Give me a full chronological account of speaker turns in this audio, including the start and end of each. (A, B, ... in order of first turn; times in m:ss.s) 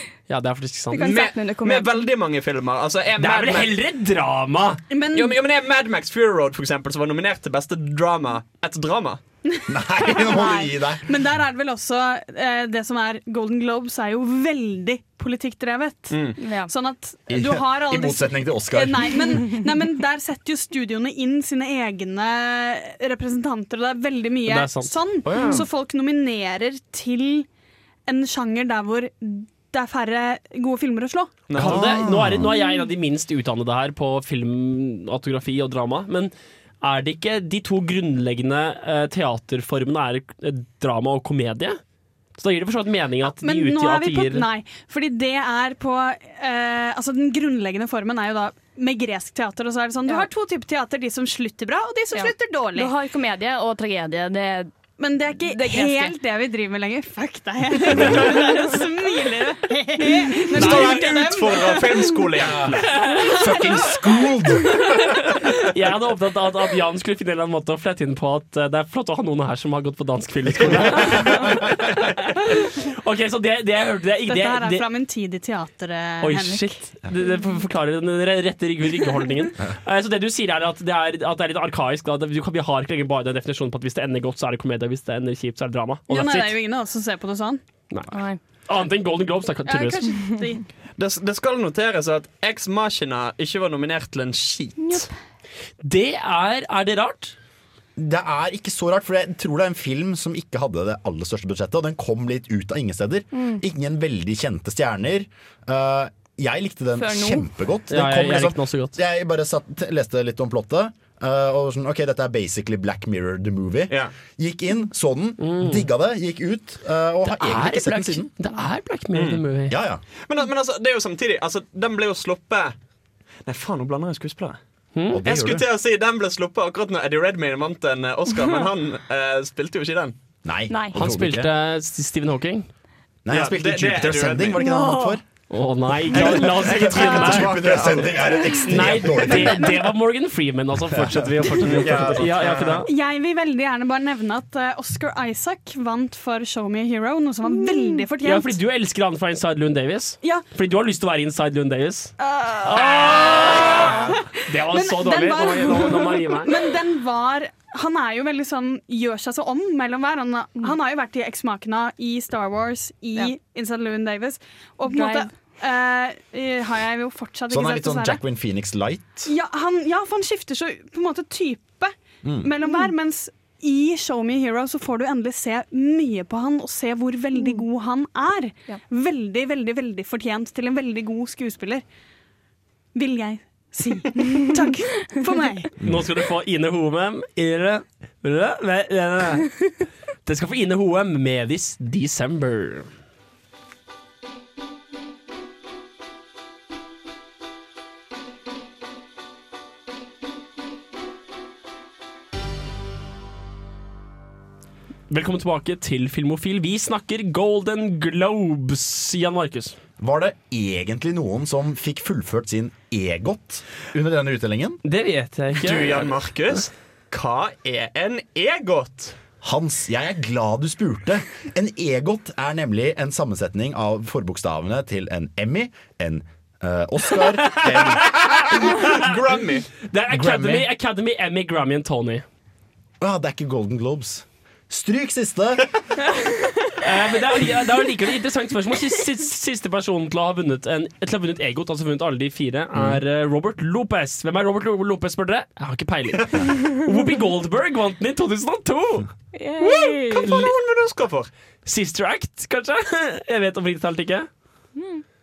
0:00.3-0:01.1 A
0:00.9-0:02.0 B
0:01.0-0:03.8 C
0:03.2-0:04.8 A
0:04.9-0:05.4 D
0:05.1-0:09.2 C
0:09.5-0:27.5 D
0:09.7-0:11.0 E
0:16.1-0:16.4 C
0:16.4-0:16.7 B
0:17.3-0:19.4 E
0:24.5-0:25.4 A
0:25.2-0:25.6 C
0:28.1-0:31.4 D
0:31.5-0:32.0 C
0:31.6-0:41.8 A
0:31.6-0:32.5 E
0:32.4-0:32.9 B
0:42.4-0:44.5 A
0:43.4-0:52.9 D
0:52.1-0:54.8 B
0:55.0-1:02.1 D
0:55.4-0:56.2 B
0:58.1-0:58.4 B
1:00.6-1:02.9 C
1:02.4-1:05.1 E
1:03.1-1:04.3 D
1:05.7-1:14.9 A
1:10.5-1:11.8 E
1:14.3-1:16.9 D
1:16.2-1:26.5 A
1:26.1-1:27.6 D
1:27.9-1:30.1 A
1:28.1-1:28.4 B
1:29.7-1:30.6 D
1:31.0-1:35.1 C
1:34.8-1:35.2 B
1:35.8-1:37.4 A
1:38.0-1:58.3 E
1:43.3-1:43.6 B
1:47.0-1:47.5 B
1:47.9-1:49.0 A
1:55.4-1:55.9 A
1:57.2-1:59.8 A
1:59.1-1:59.4 C
1:59.7-2:00.0 E
2:00.3-2:02.8 C
2:03.5-2:04.6 C
2:05.0-2:05.2 A
2:05.1-2:05.7 E
2:05.2-2:10.2 C
2:10.4-2:11.5 E
2:10.7-2:11.0 B
2:10.9-2:12.7 A
2:13.2-2:15.2 E
2:13.3-2:14.6 C
2:14.6-2:15.2 B
2:15.5-2:17.5 A
2:16.0-2:19.8 E
2:16.1-2:18.6 C
2:16.9-2:17.3 B
2:18.6-2:22.9 A
2:20.9-2:22.3 E
2:21.6-2:22.8 C
2:22.9-2:28.6 D
2:27.4-2:28.0 B
2:28.2-2:36.5 A
2:32.2-2:48.2 D
2:44.9-2:45.3 B
2:47.5-2:49.3 E
2:49.2-3:01.8 D
2:52.2-2:52.5 E
2:52.6-2:52.9 B
2:57.4-2:57.6 B
3:02.9-3:05.7 D
3:05.8-3:06.0 E
3:05.8-3:09.7 A
3:10.2-3:12.9 A
3:25.1-3:29.8 A
3:30.0-3:34.8 E
3:34.8-3:36.1 A
3:35.6-3:39.2 C
3:39.4-3:48.9 E
3:47.5-3:48.8 A
3:48.8-3:49.8 C
3:49.8-3:52.2 A
3:50.1-3:50.7 E
3:53.0-3:55.7 E
3:56.8-4:09.1 A
4:02.7-4:03.0 E
4:09.4-4:10.3 B
4:09.6-4:11.3 C
4:10.2-4:10.5 A
4:11.6-4:14.3 A
4:14.8-4:15.0 B